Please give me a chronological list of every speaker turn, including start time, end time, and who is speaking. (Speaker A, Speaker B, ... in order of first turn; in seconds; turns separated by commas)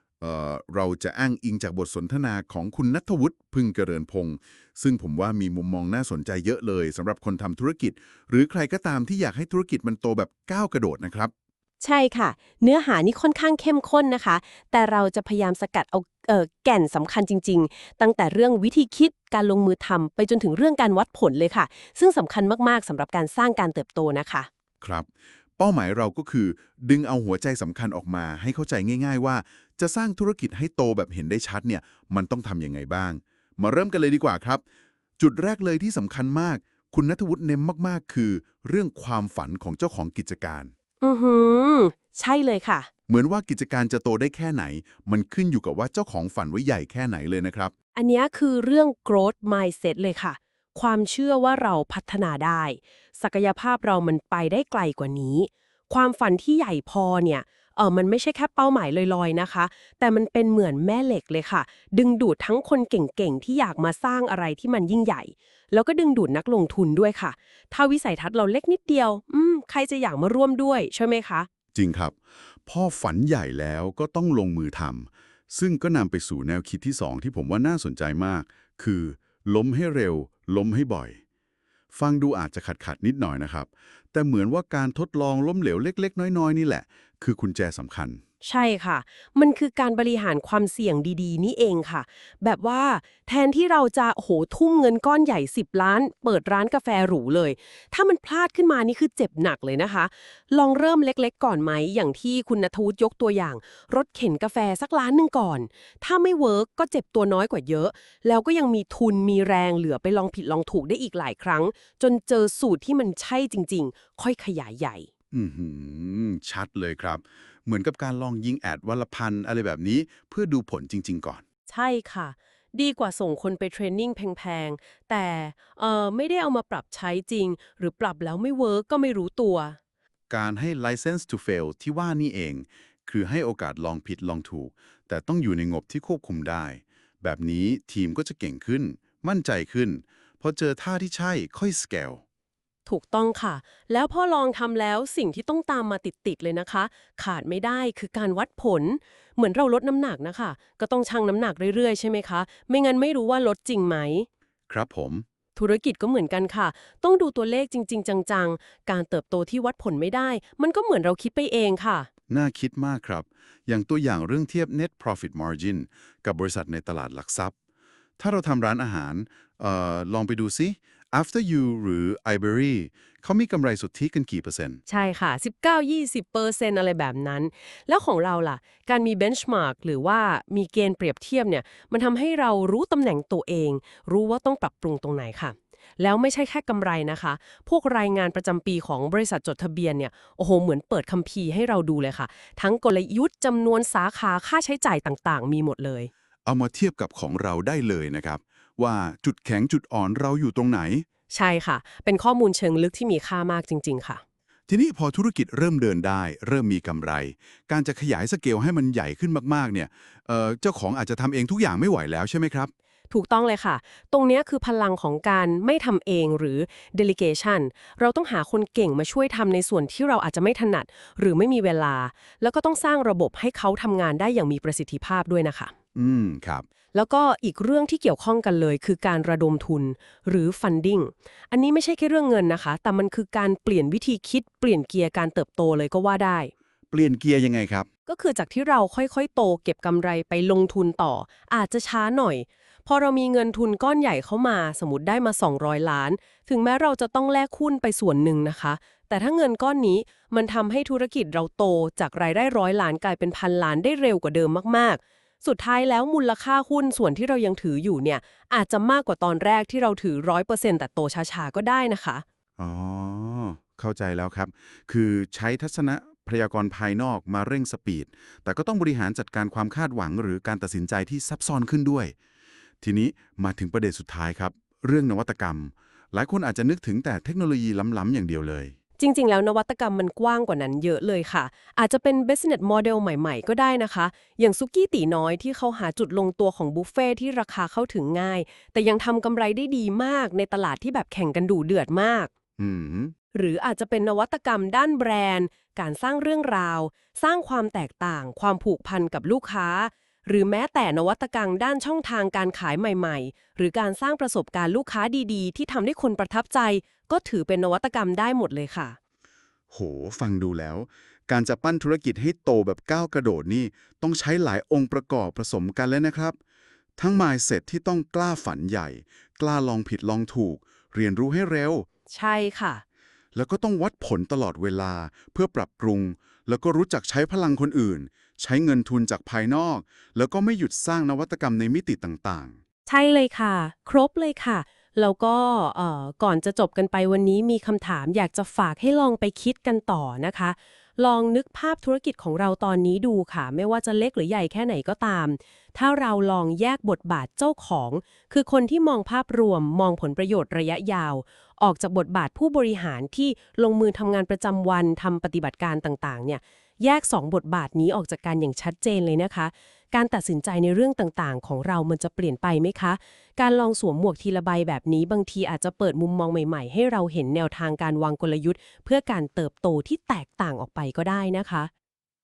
Speaker A: 0.2-11.3, Speaker B: 11.8-24.5, Speaker A: 24.8-34.6, Speaker A: 35.2-40.7, Speaker B: 41.0-42.9, Speaker A: 43.1-47.7, Speaker B: 48.0-71.5, Speaker A: 71.7-81.2, Speaker A: 81.9-88.2, Speaker B: 88.4-115.1, Speaker A: 115.3-121.4, Speaker B: 121.7-129.8, Speaker A: 130.3-142.2, Speaker B: 142.9-154.3, Speaker A: 154.7-155.2, Speaker B: 155.6-162.1, Speaker A: 162.3-167.5, Speaker A: 168.2-174.8, Speaker B: 174.9-196.1, Speaker A: 196.5-201.1, Speaker B: 201.3-204.2, Speaker A: 204.7-212.7, Speaker B: 213.1-225.7, Speaker A: 225.9-226.7, Speaker B: 226.9-236.5, Speaker A: 236.9-237.9, Speaker B: 238.1-262.2, Speaker A: 262.6-272.1, Speaker A: 272.8-278.7, Speaker B: 279.0-292.3, Speaker A: 292.6-293.1, Speaker B: 293.3-309.0, Speaker A: 309.7-316.4, Speaker A: 317.0-321.9, Speaker B: 322.1-322.8, Speaker A: 323.4-332.6, Speaker B: 332.9-371.7